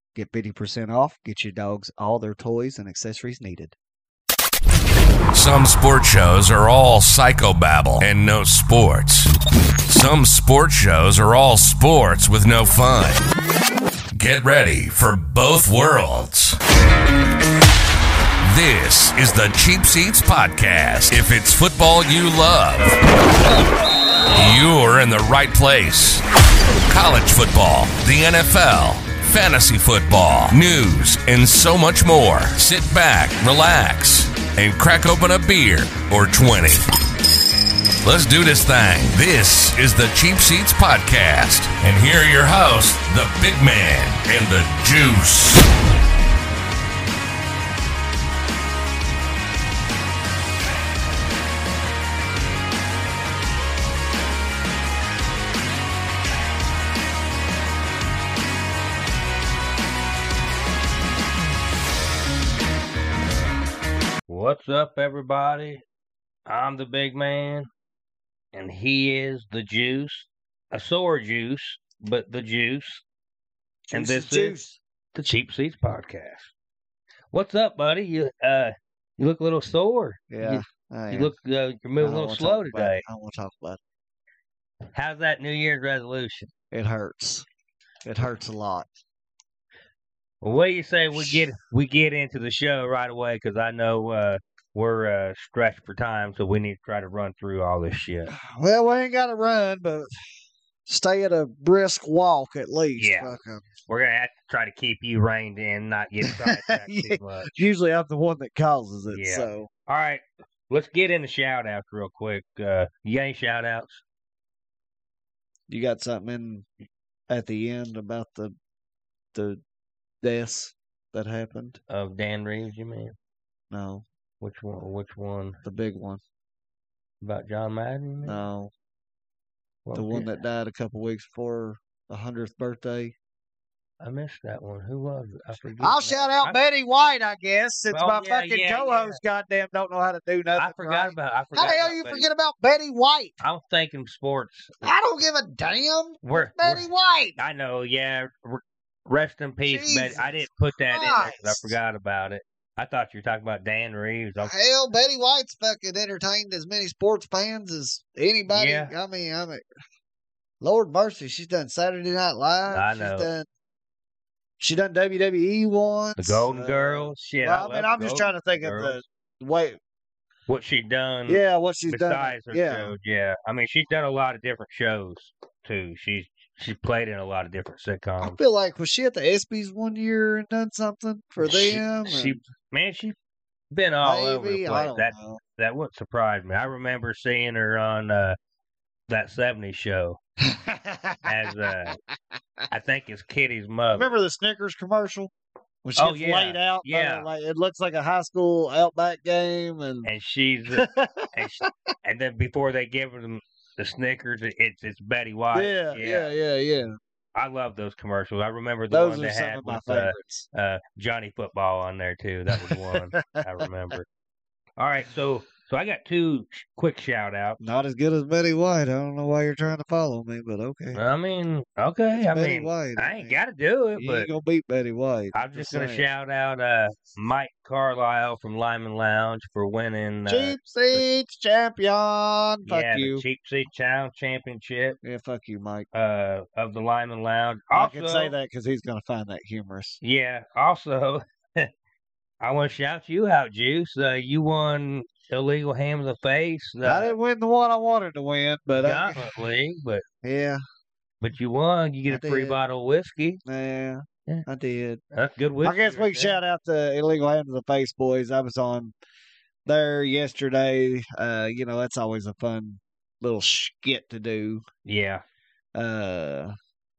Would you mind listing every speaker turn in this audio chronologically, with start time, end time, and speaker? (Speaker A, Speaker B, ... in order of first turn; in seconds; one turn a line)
Speaker A: 0.1-3.7
Speaker B: 5.3-9.3
Speaker B: 9.8-13.2
Speaker B: 14.1-16.6
Speaker B: 18.4-23.0
Speaker B: 24.3-26.2
Speaker B: 26.9-36.9
Speaker B: 38.0-45.6
Speaker C: 64.3-65.8
Speaker C: 66.5-67.7
Speaker C: 68.5-73.0
Speaker A: 73.9-74.8
Speaker C: 73.9-74.6
Speaker C: 75.1-76.5
Speaker C: 77.3-83.0
Speaker A: 80.3-81.3
Speaker A: 82.0-83.8
Speaker C: 84.9-86.5
Speaker A: 86.7-87.4
Speaker A: 88.0-88.9
Speaker C: 90.4-98.3
Speaker A: 91.1-91.4
Speaker A: 98.3-100.1
Speaker A: 100.8-103.6
Speaker C: 103.0-103.3
Speaker C: 103.9-107.5
Speaker A: 106.2-109.7
Speaker C: 109.1-114.0
Speaker A: 115.7-116.7
Speaker A: 117.3-118.5
Speaker A: 119.3-119.6
Speaker A: 120.2-121.8
Speaker C: 121.9-123.1
Speaker A: 123.7-124.0
Speaker C: 124.4-125.6
Speaker A: 125.6-126.2
Speaker C: 127.2-128.4
Speaker A: 128.2-128.7
Speaker C: 129.8-130.4
Speaker A: 129.9-133.1
Speaker C: 134.0-136.6
Speaker A: 135.8-143.4
Speaker C: 137.9-139.2
Speaker C: 140.6-142.2
Speaker C: 143.4-144.9
Speaker A: 144.8-147.4
Speaker C: 146.2-146.8
Speaker C: 147.4-154.5
Speaker A: 149.7-151.7
Speaker A: 154.4-159.6
Speaker C: 158.5-158.9
Speaker A: 160.6-163.5
Speaker C: 162.7-163.3
Speaker A: 164.6-169.8
Speaker C: 166.2-169.0
Speaker C: 170.5-178.4
Speaker A: 171.3-172.9
Speaker A: 178.2-182.4
Speaker C: 181.4-183.2
Speaker C: 183.7-188.3
Speaker A: 184.0-185.4
Speaker C: 189.1-190.2
Speaker A: 190.4-191.9
Speaker C: 191.2-192.0
Speaker C: 192.7-194.1
Speaker A: 193.9-195.3
Speaker A: 195.8-200.1
Speaker C: 196.0-197.2
Speaker C: 200.0-206.3
Speaker A: 200.7-201.7
Speaker A: 205.5-206.9
Speaker C: 207.3-214.0
Speaker A: 208.9-210.4
Speaker A: 212.5-213.6
Speaker C: 214.8-217.6
Speaker A: 217.6-221.0
Speaker C: 220.9-224.3
Speaker A: 222.2-223.4
Speaker A: 224.0-226.1
Speaker C: 225.3-231.0
Speaker A: 230.3-233.2
Speaker C: 232.7-235.0
Speaker A: 235.0-235.9
Speaker C: 235.9-238.3
Speaker A: 237.7-240.0
Speaker C: 240.0-241.7
Speaker C: 242.4-247.1
Speaker A: 246.8-249.2
Speaker C: 248.8-250.0
Speaker A: 250.2-250.6
Speaker C: 251.2-253.4
Speaker A: 252.1-252.6
Speaker A: 253.4-255.0
Speaker C: 255.1-256.4
Speaker A: 255.6-258.9
Speaker A: 259.6-264.6
Speaker C: 264.8-265.2
Speaker A: 265.7-266.5